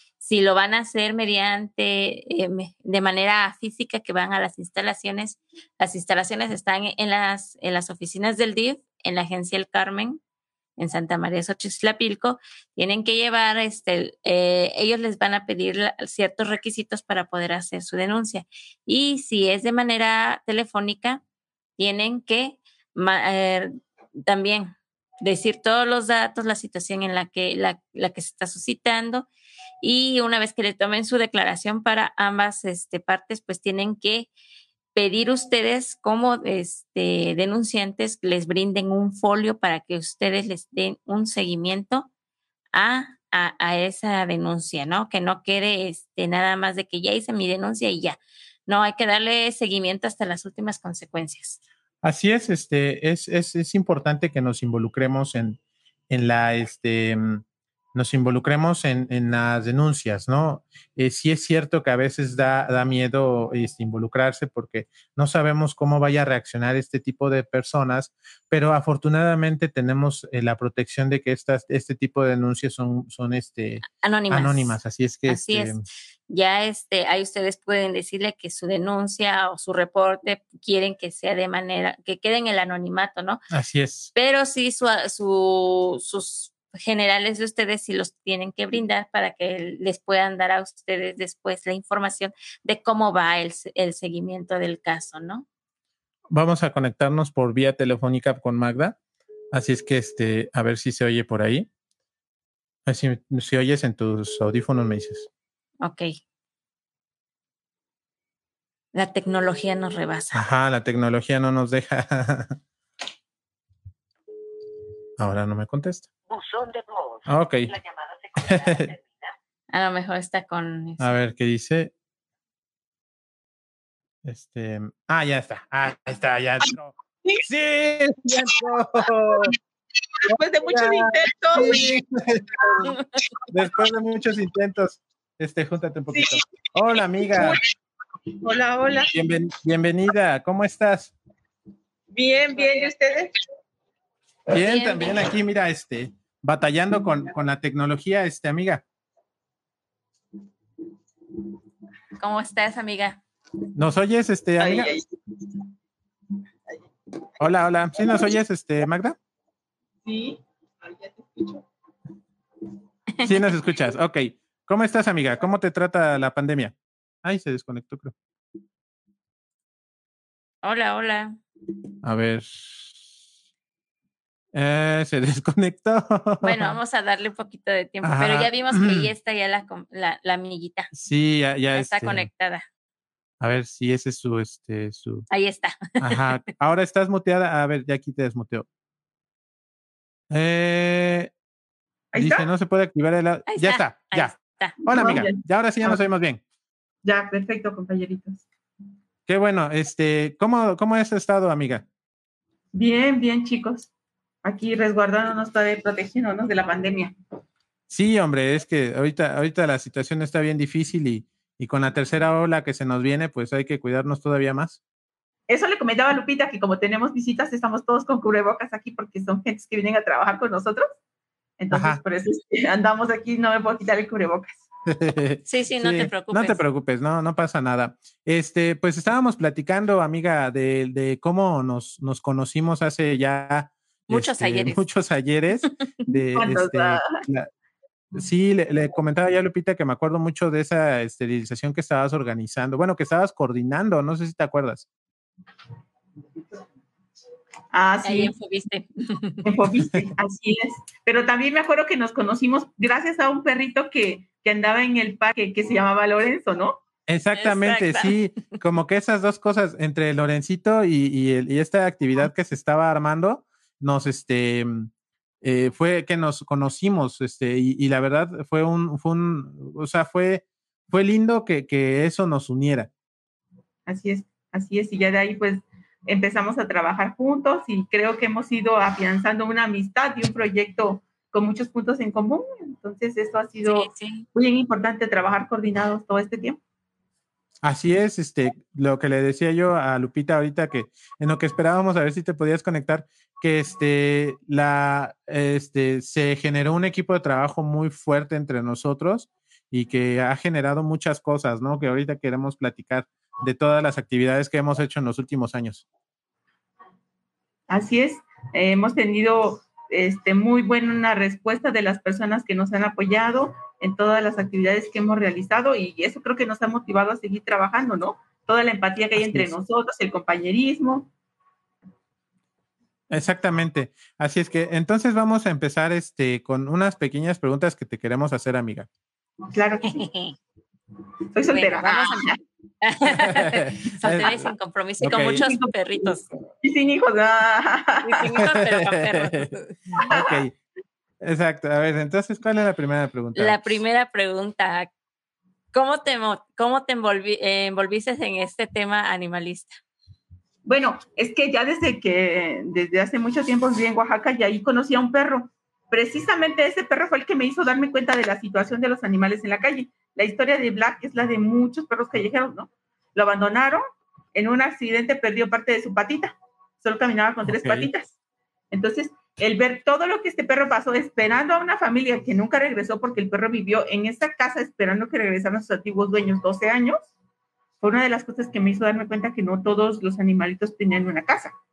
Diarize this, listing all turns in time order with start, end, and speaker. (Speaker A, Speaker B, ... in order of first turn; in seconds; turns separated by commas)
Speaker A: 0.2-10.2, Speaker A: 10.8-21.2, Speaker A: 21.8-29.3, Speaker A: 29.8-34.3, Speaker A: 34.9-42.1, Speaker A: 42.7-51.6, Speaker B: 52.0-75.8, Speaker A: 74.0-75.8, Speaker A: 76.3-83.4, Speaker B: 83.5-84.1, Speaker A: 84.1-95.5, Speaker B: 96.3-99.0, Speaker B: 99.5-101.7, Speaker B: 102.8-105.3, Speaker A: 105.8-106.1, Speaker A: 108.9-110.4, Speaker B: 110.3-112.6, Speaker B: 115.2-116.1, Speaker B: 117.2-117.8, Speaker B: 118.3-118.9, Speaker A: 119.7-121.2, Speaker B: 121.0-121.9, Speaker B: 124.2-129.5, Speaker C: 130.2-131.9, Speaker B: 130.3-132.9, Speaker C: 132.6-133.3, Speaker B: 133.5-137.6, Speaker C: 136.1-136.4, Speaker C: 137.2-137.6, Speaker C: 138.3-139.1, Speaker B: 139.1-141.1, Speaker C: 142.1-143.3, Speaker A: 142.6-142.9, Speaker B: 144.5-148.8, Speaker A: 144.6-145.1, Speaker A: 152.2-153.2, Speaker B: 153.7-154.9, Speaker C: 154.6-155.6, Speaker B: 157.4-159.2, Speaker C: 157.9-158.3, Speaker C: 160.0-161.6, Speaker B: 163.2-168.1, Speaker A: 170.6-171.4, Speaker B: 172.0-173.1, Speaker B: 174.5-176.7, Speaker A: 176.4-180.9, Speaker B: 178.0-179.1, Speaker B: 180.9-182.3, Speaker A: 181.7-182.6, Speaker B: 183.4-185.2, Speaker A: 185.3-186.3, Speaker B: 186.0-188.7, Speaker B: 190.3-191.3, Speaker C: 192.1-192.5, Speaker B: 192.2-196.4, Speaker A: 193.5-194.8, Speaker C: 194.9-196.0, Speaker C: 197.0-198.4, Speaker B: 199.3-201.8, Speaker C: 202.7-203.9, Speaker C: 204.4-207.1, Speaker B: 207.9-214.8, Speaker C: 215.5-220.9, Speaker C: 221.6-224.6, Speaker B: 221.7-222.0, Speaker B: 224.9-237.5, Speaker A: 225.4-226.6, Speaker A: 234.1-234.8, Speaker C: 236.3-237.2, Speaker B: 238.1-244.9, Speaker C: 247.7-248.3, Speaker A: 248.0-249.5, Speaker C: 249.4-256.8, Speaker B: 257.1-264.9, Speaker A: 257.3-258.6, Speaker B: 265.4-272.9, Speaker C: 273.9-286.6, Speaker A: 283.6-284.3, Speaker B: 287.6-305.8, Speaker C: 307.7-321.1, Speaker B: 319.1-319.5, Speaker B: 323.1-328.9, Speaker C: 329.5-330.1, Speaker A: 329.9-330.4, Speaker C: 331.3-332.4, Speaker A: 331.5-336.3, Speaker B: 334.0-334.4, Speaker B: 335.0-335.4, Speaker C: 335.1-336.1, Speaker C: 336.6-338.2, Speaker A: 338.0-339.8, Speaker B: 338.4-339.5, Speaker C: 340.0-340.4, Speaker B: 340.0-340.6, Speaker B: 341.2-343.8, Speaker A: 343.3-344.9, Speaker A: 345.7-349.8, Speaker C: 350.6-363.8, Speaker C: 364.3-368.1, Speaker B: 367.4-367.9, Speaker C: 368.7-377.0, Speaker C: 377.8-381.5